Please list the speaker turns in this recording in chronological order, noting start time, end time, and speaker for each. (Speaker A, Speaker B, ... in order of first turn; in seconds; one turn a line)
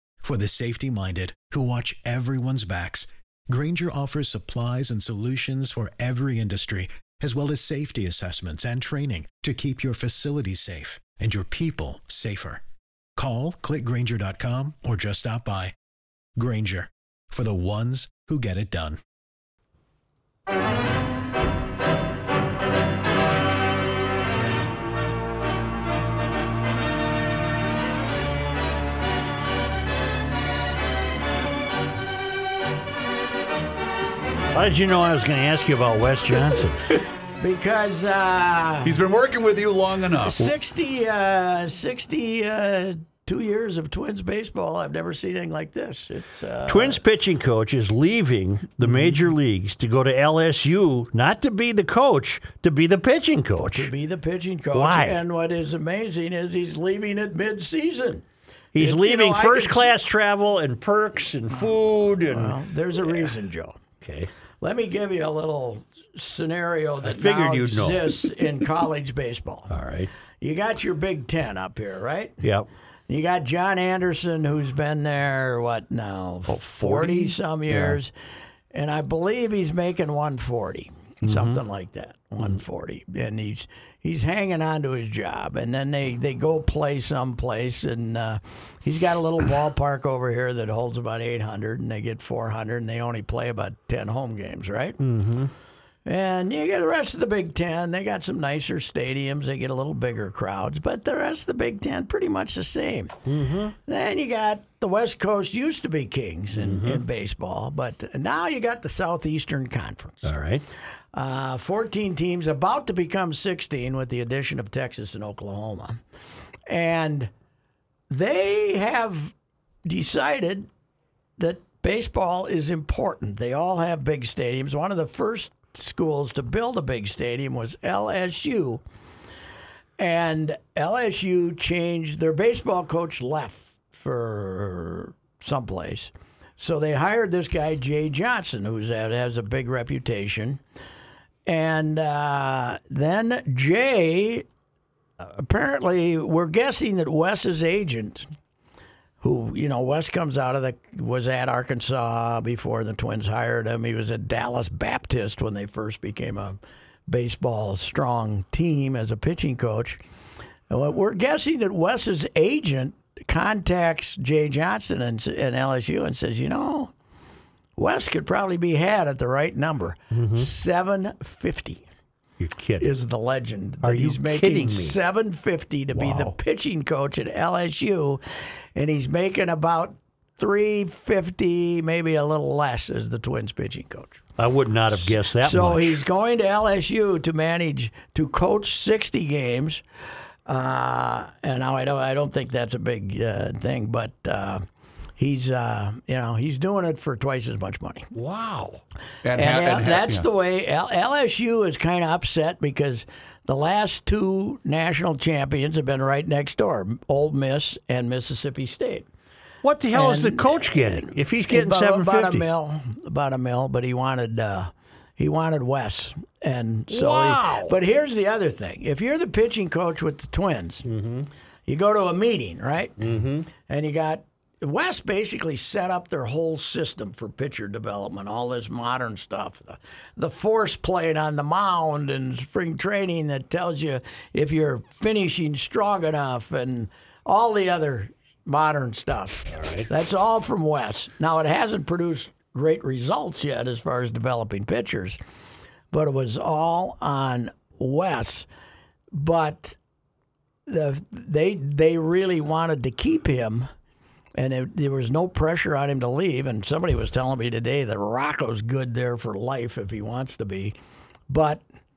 Speaker A: 0.2-12.6
Speaker A: 13.2-15.7
Speaker A: 16.4-19.0
Speaker B: 34.5-36.8
Speaker C: 37.4-39.0
Speaker D: 38.8-40.4
Speaker C: 40.2-47.0
Speaker B: 46.7-53.9
Speaker C: 53.6-58.2
Speaker B: 54.7-55.2
Speaker B: 58.7-63.3
Speaker C: 58.8-59.9
Speaker C: 62.3-63.8
Speaker B: 64.0-64.3
Speaker C: 64.6-69.7
Speaker B: 67.0-68.3
Speaker B: 69.7-70.1
Speaker C: 70.4-72.4
Speaker B: 72.4-72.7
Speaker C: 73.1-78.1
Speaker D: 76.5-77.1
Speaker B: 76.9-78.0
Speaker C: 78.7-95.0
Speaker B: 81.2-81.6
Speaker B: 95.0-95.5
Speaker C: 96.1-103.2
Speaker B: 103.2-103.7
Speaker C: 103.8-110.3
Speaker B: 106.5-107.0
Speaker B: 110.2-110.6
Speaker C: 111.1-116.0
Speaker C: 116.7-117.3
Speaker C: 118.1-119.3
Speaker C: 119.8-120.7
Speaker C: 121.4-128.8
Speaker C: 130.0-140.6
Speaker C: 141.5-144.5
Speaker C: 145.2-148.3
Speaker C: 149.2-160.0
Speaker C: 160.7-166.9
Speaker C: 167.8-171.8
Speaker B: 170.1-170.5
Speaker B: 172.4-172.9
Speaker C: 172.8-178.2
Speaker B: 173.8-175.0
Speaker D: 175.9-176.3
Speaker C: 178.8-184.2
Speaker B: 184.4-186.0
Speaker C: 184.9-189.8
Speaker C: 190.5-194.7
Speaker C: 195.2-198.1
Speaker B: 198.1-198.8
Speaker D: 199.2-200.3
Speaker C: 199.3-209.1
Speaker B: 209.6-212.5
Speaker C: 209.9-220.9
Speaker B: 216.9-217.8
Speaker B: 220.8-221.3
Speaker C: 221.7-245.2
Speaker B: 223.0-223.5
Speaker B: 239.5-239.9
Speaker C: 245.9-248.5
Speaker C: 249.1-249.8
Speaker C: 250.7-253.7
Speaker C: 254.4-260.8
Speaker C: 261.3-261.6